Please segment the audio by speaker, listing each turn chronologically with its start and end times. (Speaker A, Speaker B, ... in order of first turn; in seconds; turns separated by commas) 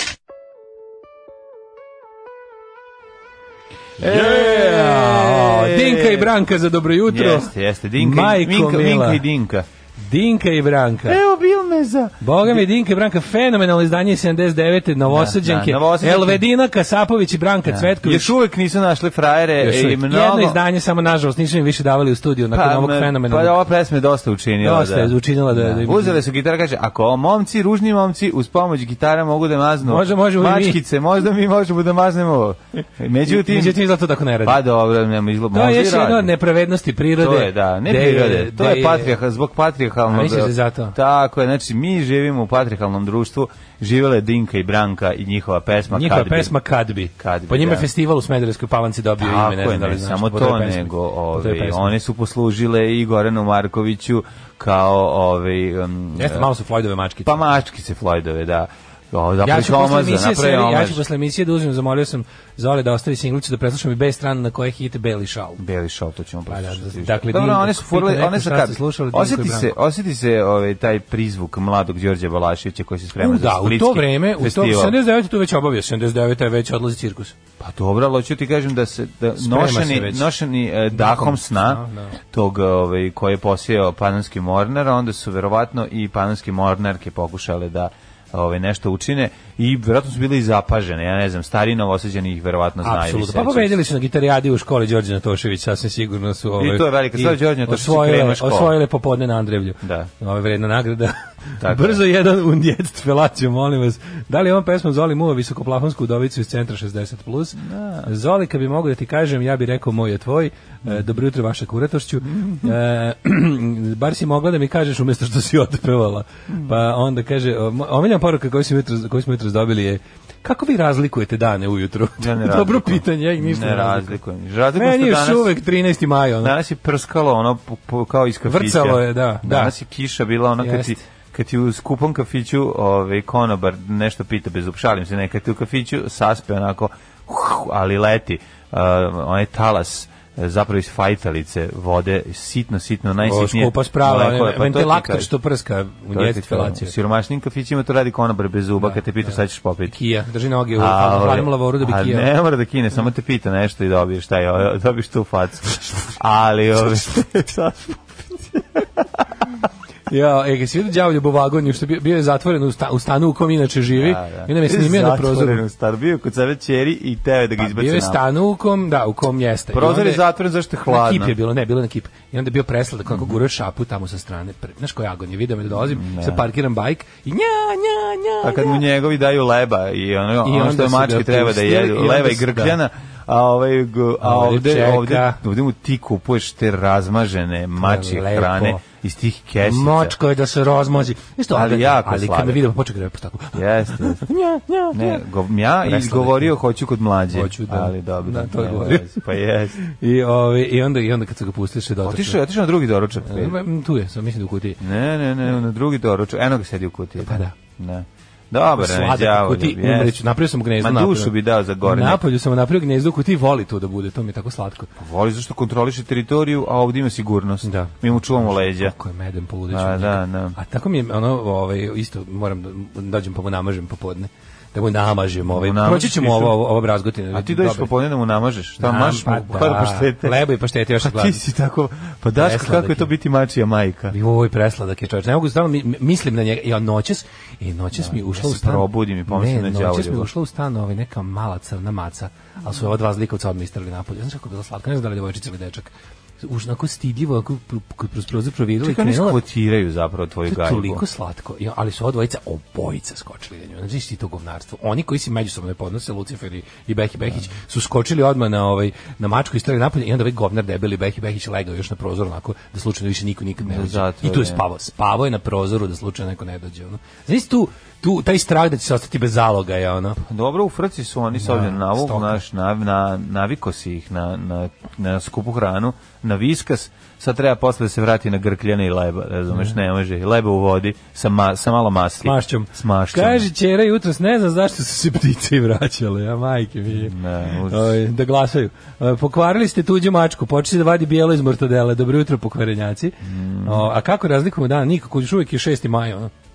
Speaker A: 4.0-6.3, Speaker B: 4.0-9.2, Speaker A: 7.1-9.7, Speaker B: 10.0-11.2, Speaker A: 11.1-12.7, Speaker B: 12.2-18.3, Speaker A: 15.1-16.4, Speaker A: 17.7-20.6, Speaker B: 19.6-23.6, Speaker A: 22.5-33.8, Speaker B: 24.6-26.2, Speaker B: 29.8-30.8, Speaker B: 33.3-34.6, Speaker A: 34.4-36.3, Speaker B: 35.5-39.2, Speaker A: 37.2-46.5, Speaker B: 40.1-41.0, Speaker B: 45.9-51.9, Speaker A: 47.2-47.9, Speaker A: 49.2-56.5, Speaker B: 56.1-57.5, Speaker A: 57.2-61.0, Speaker B: 59.4-65.6, Speaker A: 65.6-75.0, Speaker B: 66.5-69.8, Speaker B: 73.2-77.4, Speaker A: 77.6-93.8, Speaker B: 79.4-80.3, Speaker B: 80.9-82.2, Speaker B: 92.8-124.2, Speaker A: 96.6-98.8, Speaker A: 99.8-100.1, Speaker A: 101.6-102.0, Speaker A: 107.6-108.1, Speaker A: 112.3-112.7, Speaker A: 122.2-125.6, Speaker B: 124.8-126.5, Speaker A: 126.4-145.3, Speaker B: 128.5-129.8, Speaker B: 130.6-131.0, Speaker B: 143.2-146.9, Speaker A: 146.1-149.9, Speaker B: 148.8-152.3, Speaker A: 150.8-159.2, Speaker B: 160.1-165.6, Speaker A: 163.9-168.2, Speaker B: 167.6-170.2, Speaker A: 169.7-171.3, Speaker B: 170.9-178.8, Speaker A: 173.1-173.4, Speaker A: 175.7-176.4, Speaker A: 178.4-190.2, Speaker B: 180.4-182.8, Speaker B: 184.2-185.4, Speaker B: 187.8-188.8, Speaker B: 189.6-195.2, Speaker A: 191.5-192.6, Speaker A: 193.5-194.2, Speaker A: 194.9-199.8, Speaker B: 195.8-196.5, Speaker B: 197.3-199.2, Speaker B: 199.8-202.4, Speaker A: 202.0-203.6, Speaker B: 203.2-204.8, Speaker A: 204.8-210.2, Speaker B: 207.2-207.6, Speaker B: 208.8-214.9, Speaker A: 210.8-212.2, Speaker A: 215.0-218.9, Speaker B: 217.6-227.9, Speaker A: 219.7-220.6, Speaker A: 225.5-226.6, Speaker A: 227.3-230.4, Speaker B: 228.8-231.4, Speaker A: 231.0-234.2, Speaker B: 232.4-233.1, Speaker B: 234.1-249.4, Speaker A: 237.9-240.3, Speaker A: 248.8-251.0, Speaker B: 250.5-270.2, Speaker A: 263.6-264.6, Speaker A: 270.2-283.5, Speaker B: 271.4-272.4, Speaker B: 282.2-287.1, Speaker A: 287.0-288.0, Speaker B: 287.7-296.3, Speaker A: 293.2-293.9